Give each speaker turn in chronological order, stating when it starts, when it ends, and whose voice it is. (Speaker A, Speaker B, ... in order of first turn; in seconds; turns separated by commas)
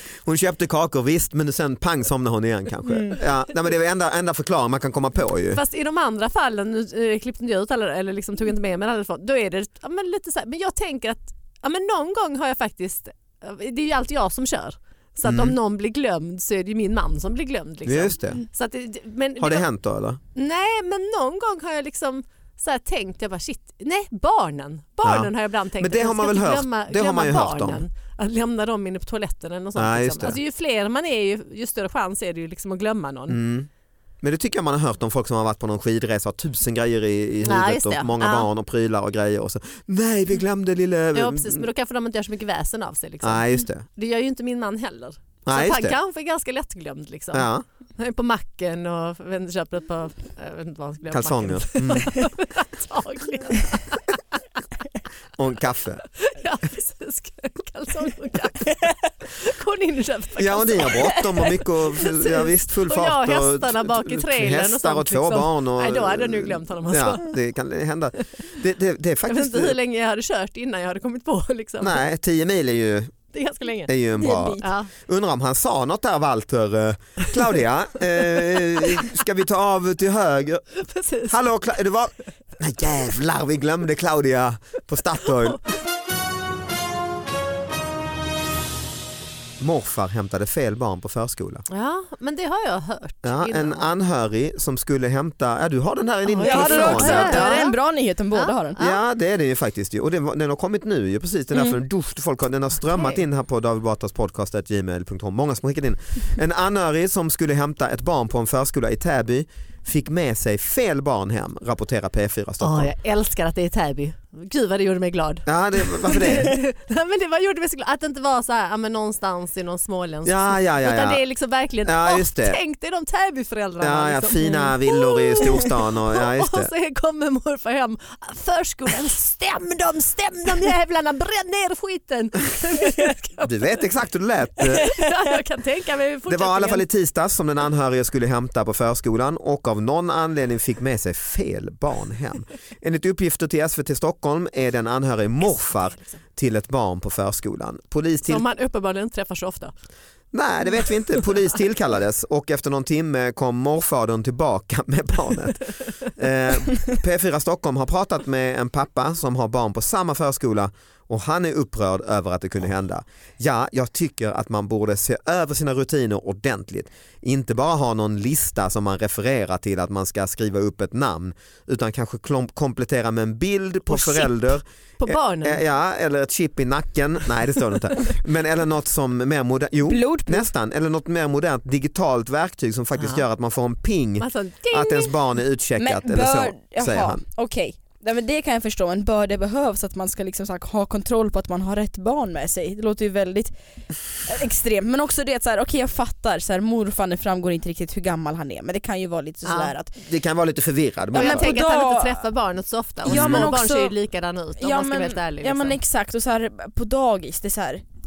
Speaker A: 0.2-5.6, Speaker B: 5.5-19.6, Speaker A: 15.2-15.6, Speaker A: 17.8-18.4, Speaker A: 19.4-20.2, Speaker B: 20.3-33.4, Speaker A: 25.0-27.8, Speaker A: 29.8-30.4, Speaker A: 33.3-33.7, Speaker A: 34.2-41.7, Speaker B: 37.4-38.5, Speaker B: 41.1-54.2, Speaker A: 43.2-43.9, Speaker A: 45.5-46.0, Speaker A: 47.3-47.6, Speaker A: 51.1-52.2, Speaker A: 55.4-56.0, Speaker B: 56.2-67.3, Speaker A: 60.4-69.8, Speaker B: 69.3-72.0, Speaker A: 71.8-73.1, Speaker B: 73.3-73.9, Speaker A: 73.9-80.7, Speaker C: 74.2-74.7, Speaker B: 74.6-74.9, Speaker B: 78.6-79.0, Speaker B: 80.8-81.6, Speaker A: 81.3-85.6, Speaker A: 89.6-91.6, Speaker B: 91.7-93.9, Speaker A: 93.2-97.6, Speaker B: 96.2-97.8, Speaker C: 96.4-98.8, Speaker B: 98.3-99.0, Speaker A: 98.8-112.9, Speaker B: 112.6-133.7, Speaker A: 115.5-116.5, Speaker A: 120.2-121.2, Speaker A: 121.8-122.6, Speaker A: 123.8-126.7, Speaker A: 133.4-134.9, Speaker B: 134.7-136.8, Speaker C: 134.8-135.1, Speaker A: 136.3-148.4, Speaker B: 145.7-146.1, Speaker B: 148.3-149.7, Speaker A: 150.3-187.2, Speaker B: 173.9-174.4, Speaker B: 175.0-175.6, Speaker C: 179.9-180.5, Speaker B: 183.0-183.2, Speaker B: 184.2-185.2, Speaker C: 185.8-193.5, Speaker C: 194.2-199.9, Speaker B: 199.4-199.7, Speaker A: 200.0-201.6, Speaker B: 201.1-205.8, Speaker C: 201.1-202.2, Speaker A: 203.1-203.6, Speaker C: 203.1-203.9, Speaker C: 204.6-207.8